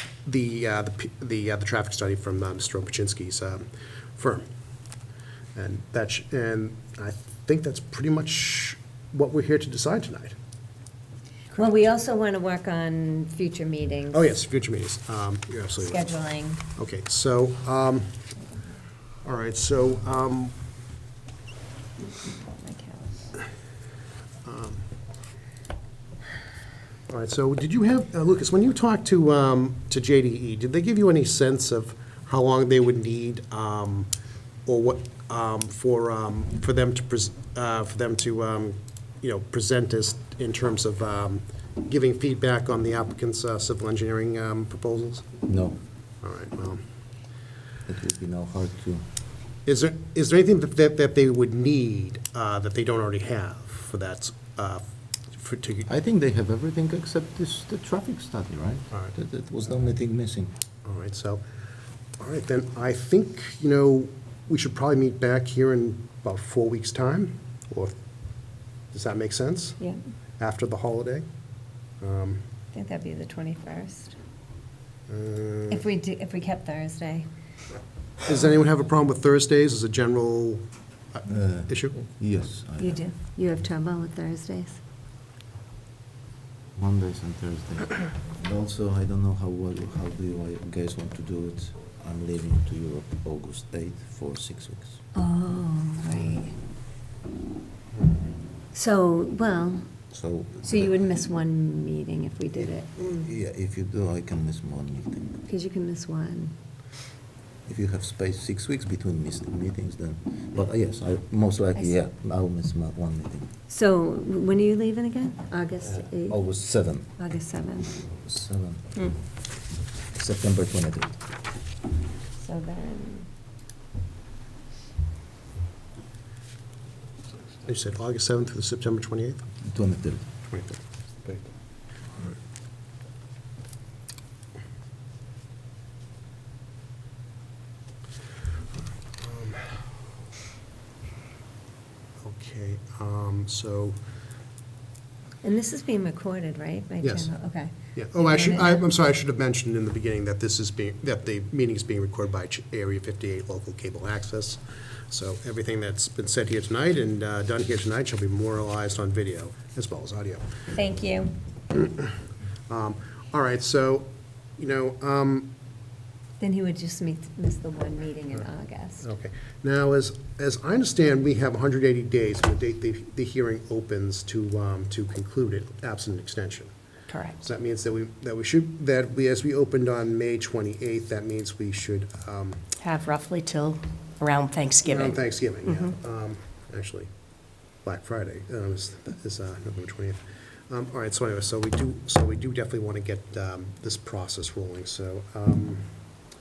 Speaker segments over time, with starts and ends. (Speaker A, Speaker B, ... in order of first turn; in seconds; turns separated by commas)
Speaker A: 0.2-4.4, Speaker A: 5.5-10.3, Speaker B: 11.5-14.2, Speaker A: 14.1-16.1, Speaker B: 15.8-16.6, Speaker A: 16.7-18.1, Speaker A: 19.2-20.5, Speaker B: 22.5-23.3, Speaker A: 24.4-24.8, Speaker A: 27.1-34.1, Speaker A: 34.6-45.2, Speaker C: 45.5-45.8, Speaker A: 46.2-46.8, Speaker C: 47.9-49.0, Speaker A: 49.6-55.9, Speaker C: 55.9-60.5, Speaker A: 60.8-61.4, Speaker A: 62.2-68.0, Speaker A: 68.9-69.8, Speaker A: 70.4-71.3, Speaker A: 72.0-72.4, Speaker B: 72.7-74.1, Speaker A: 75.1-75.8, Speaker B: 75.7-77.3, Speaker A: 78.2-82.0, Speaker C: 81.3-83.1, Speaker B: 82.8-84.8, Speaker C: 86.8-95.0, Speaker B: 95.1-96.5, Speaker B: 98.7-100.1, Speaker C: 100.1-100.9, Speaker B: 100.6-103.2, Speaker C: 102.5-105.4, Speaker B: 105.5-106.5, Speaker C: 107.7-113.5, Speaker B: 113.7-116.4, Speaker C: 115.8-117.1, Speaker B: 117.2-118.0, Speaker C: 118.1-119.0, Speaker C: 120.1-121.2, Speaker B: 122.4-123.3, Speaker A: 127.7-129.4, Speaker C: 129.7-130.2, Speaker A: 130.5-130.8, Speaker A: 139.2-139.8, Speaker A: 142.2-144.0, Speaker B: 145.4-148.8, Speaker A: 147.0-147.3, Speaker A: 147.9-160.5, Speaker B: 160.7-161.3, Speaker A: 161.7-162.1, Speaker A: 162.7-165.5, Speaker B: 166.4-169.0, Speaker A: 169.0-176.7, Speaker D: 177.1-177.4, Speaker A: 177.3-182.6, Speaker D: 182.8-185.9, Speaker A: 184.8-187.1, Speaker A: 187.8-195.9